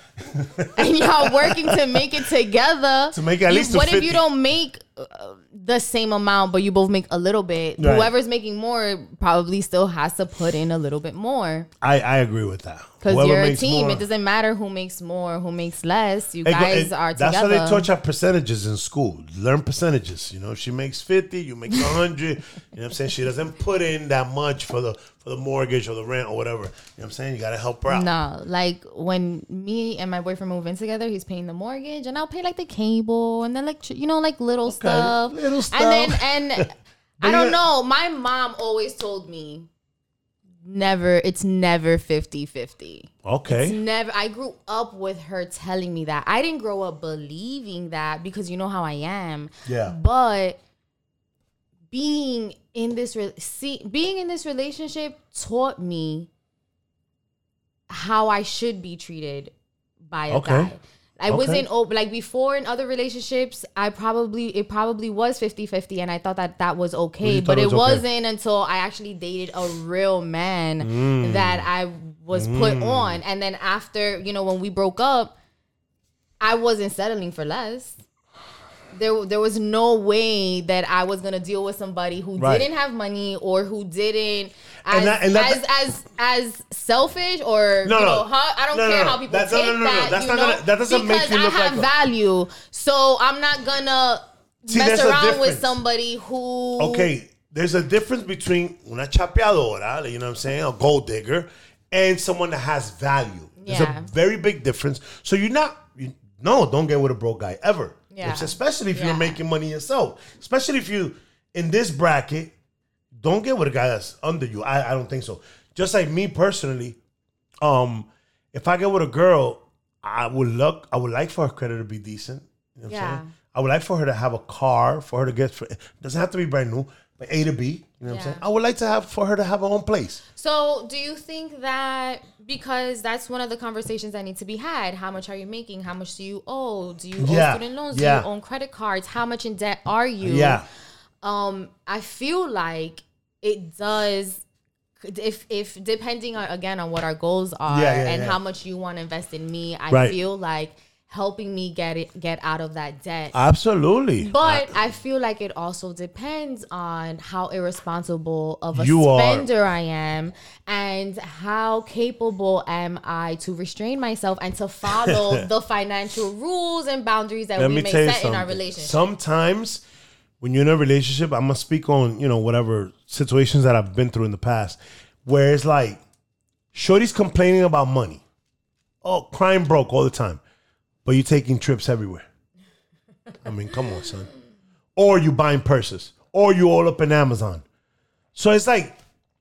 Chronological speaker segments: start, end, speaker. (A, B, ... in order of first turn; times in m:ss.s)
0:00.3-0:02.0 A
0:00.7-0:11.7 B
0:03.1-0:04.2 A
0:07.8-0:08.1 A
0:11.8-0:14.0 A
0:13.0-0:17.9 B
0:16.4-0:28.1 A
0:27.9-0:39.7 B
0:34.7-0:37.6 A
0:40.6-0:50.6 B
0:43.2-0:43.8 A
0:49.6-0:49.9 A
0:51.9-0:56.3 B
0:57.9-0:59.5 B
1:00.1-1:15.3 B
1:00.3-1:00.7 A
1:01.3-1:01.6 A
1:07.2-1:08.0 A
1:10.8-1:11.7 A
1:12.3-1:13.2 A
1:16.4-1:18.0 B
1:18.9-1:37.1 B
1:22.4-1:22.7 A
1:24.9-1:25.6 A
1:27.8-1:31.9 A
1:34.7-1:35.8 A
1:36.8-1:52.5 A
1:43.6-1:44.1 B
1:48.1-1:49.4 B
1:53.1-1:57.0 A
1:57.6-2:10.2 A
2:02.9-2:03.3 B
2:08.0-2:08.4 B
2:10.3-2:20.6 B
2:17.2-2:18.3 A
2:20.2-2:20.6 A
2:21.2-2:24.4 B
2:25.0-2:33.3 B
2:27.7-2:28.4 A
2:29.9-2:30.2 A
2:33.3-2:34.7 A
2:34.2-2:49.0 B
2:38.7-2:39.5 A
2:45.0-2:45.4 A
2:47.6-2:49.8 A
2:50.4-2:56.0 A
2:56.7-2:58.2 A
2:59.0-3:00.4 A
3:01.0-3:02.2 A
3:03.4-3:04.3 A
3:05.0-3:07.6 A
3:08.3-3:09.0 A